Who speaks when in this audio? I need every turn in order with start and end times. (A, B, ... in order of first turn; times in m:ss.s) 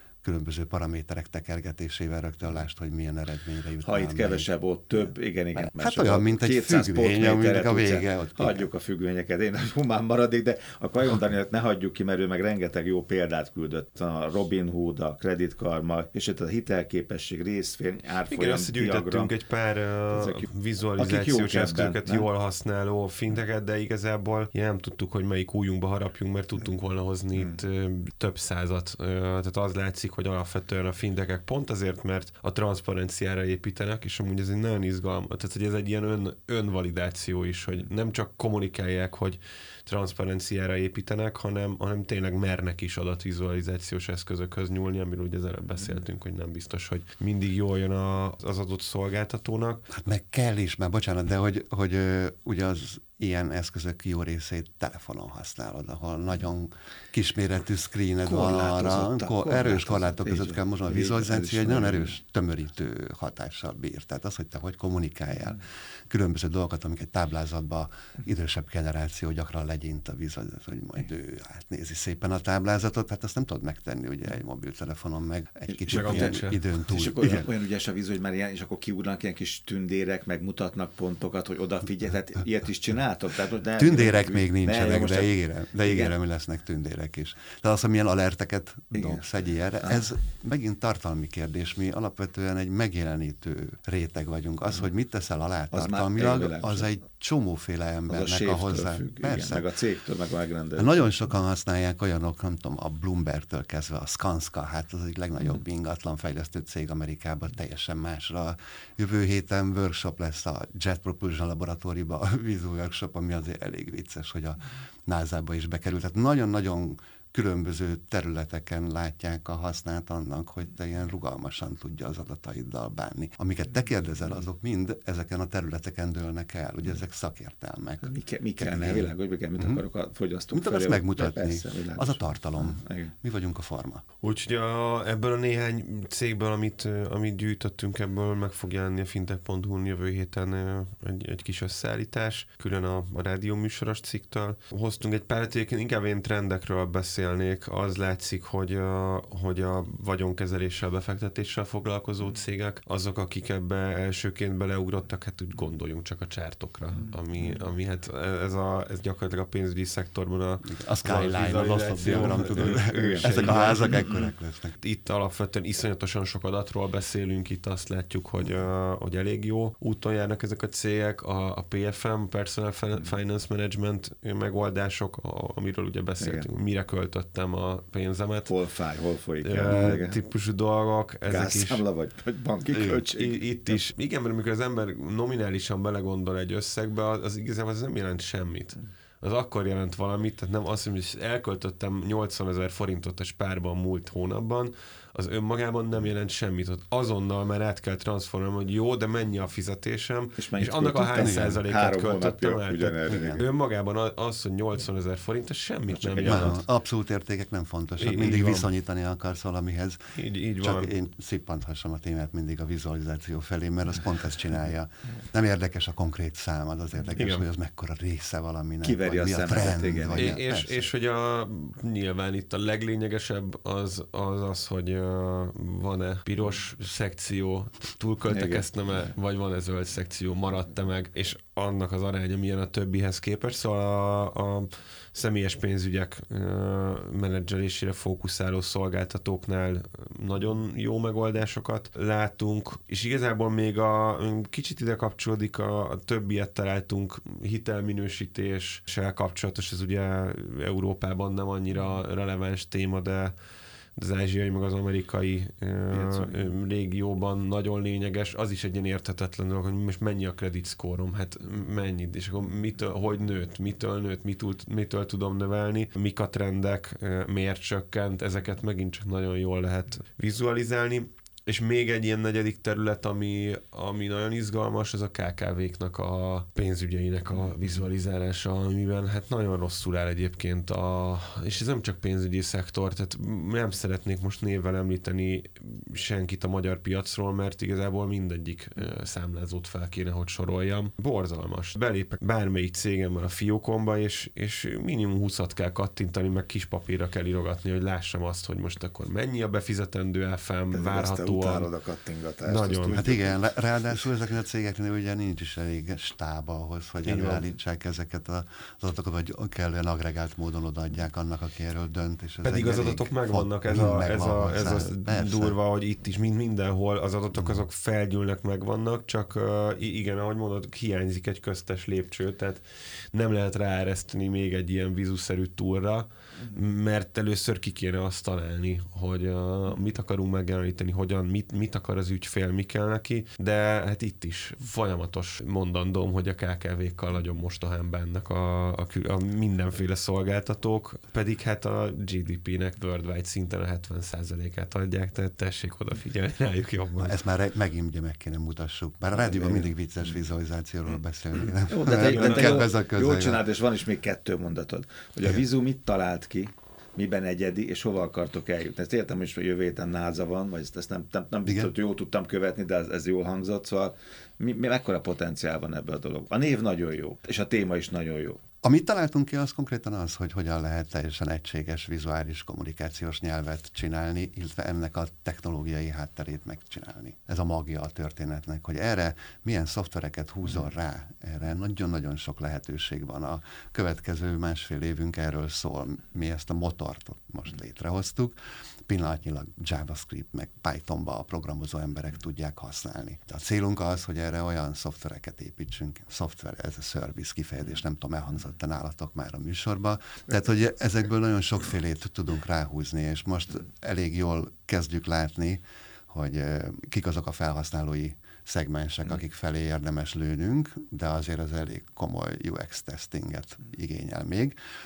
0:00.2-0:04.5 A
0:03.8-0:19.3 B
0:05.6-0:08.7 A
0:18.3-0:49.9 C
0:20.1-0:22.3 B
0:49.9-1:17.5 A
0:58.2-1:02.2 B
1:15.7-1:26.2 B
1:15.9-1:16.6 C
1:23.8-1:39.7 A
1:28.9-1:29.2 B
1:35.7-1:36.9 B
1:38.1-1:41.1 B
1:40.8-2:09.8 A
2:08.0-2:13.1 B
2:10.5-2:14.0 A
2:14.2-2:43.9 C
2:37.4-2:37.6 B
2:40.6-2:44.7 A
2:42.5-2:44.3 B
2:44.8-2:58.5 C
2:56.2-2:56.5 B
2:58.5-3:00.2 B
2:59.4-3:01.8 C
3:01.3-3:03.8 B
3:02.7-3:26.6 C
3:20.4-3:23.5 B
3:21.2-3:21.6 A
3:25.9-3:26.6 B
3:26.2-3:30.0 A
3:28.0-3:28.7 C
3:30.2-3:30.9 C
3:30.6-3:40.9 A
3:37.2-3:37.5 C
3:38.8-3:40.4 B
3:40.1-4:13.4 C
3:48.3-3:49.1 B
4:14.0-5:01.7 C
4:15.9-4:16.5 B
5:00.7-5:03.4 B
5:02.4-5:03.0 C
5:02.9-5:15.6 A
5:07.0-5:07.5 C
5:12.4-5:47.2 C
5:17.4-5:17.6 A
5:47.0-5:53.4 A
5:49.1-5:49.7 B
5:51.4-6:08.4 B
5:51.9-5:52.7 C
6:01.5-6:01.7 A
6:08.6-6:28.4 A
6:28.9-6:54.6 A